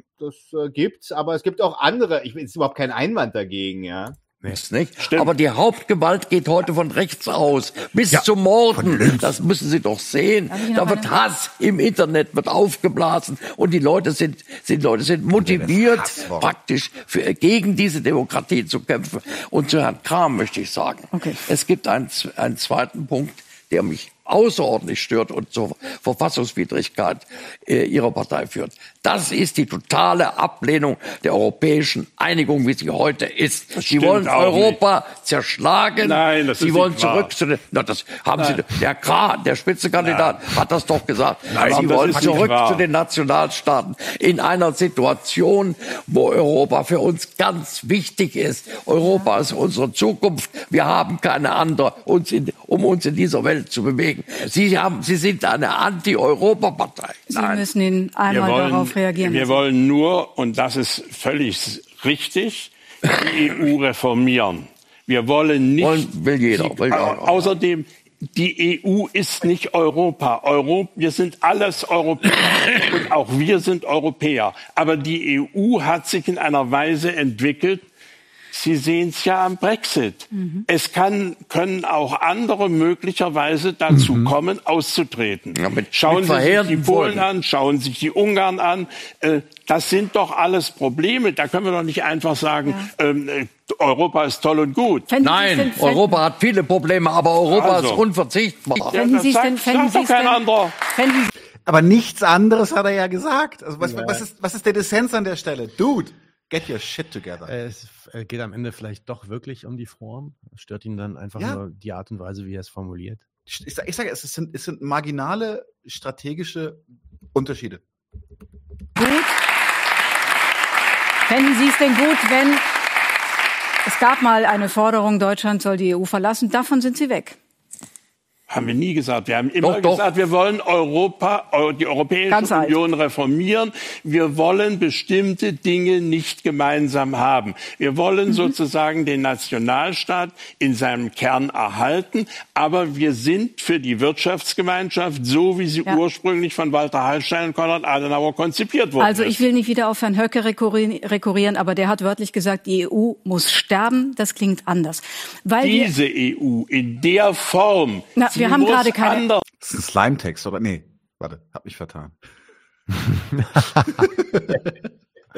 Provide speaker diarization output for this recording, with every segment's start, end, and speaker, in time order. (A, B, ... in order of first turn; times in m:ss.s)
0:00.2-0:04.2 A
0:04.5-0:57.7 B
0:05.0-0:05.3 C
0:08.7-0:09.3 D
0:10.5-0:11.1 E
0:15.4-0:16.5 D
0:21.1-0:21.4 E
0:33.7-0:34.8 C
0:36.0-0:37.3 C
0:38.4-0:38.8 C
0:40.0-0:40.5 C
0:41.4-0:42.8 C
0:57.3-0:59.6 E
0:58.3-1:17.8 C
1:05.8-1:07.6 B
1:18.5-1:35.1 C
1:20.3-1:20.6 E
1:23.9-1:24.3 F
1:25.5-1:27.3 B
1:35.1-1:36.2 E
1:35.2-1:39.0 B
1:37.5-1:38.0 C
1:38.8-1:40.7 C
1:39.0-1:41.3 E
1:41.6-1:47.5 D
1:43.8-1:44.2 A
1:47.4-1:53.2 F
1:53.5-1:57.8 D
1:59.0-1:59.3 E
2:01.3-2:02.6 E
2:03.8-2:07.4 E
2:08.5-2:29.4 C
2:09.6-2:10.1 B
2:12.3-2:12.8 E
2:29.0-2:35.9 E
2:35.6-2:39.4 C
2:38.2-2:39.3 E
2:39.6-2:42.2 D
2:43.0-2:44.1 F
2:44.0-2:44.6 D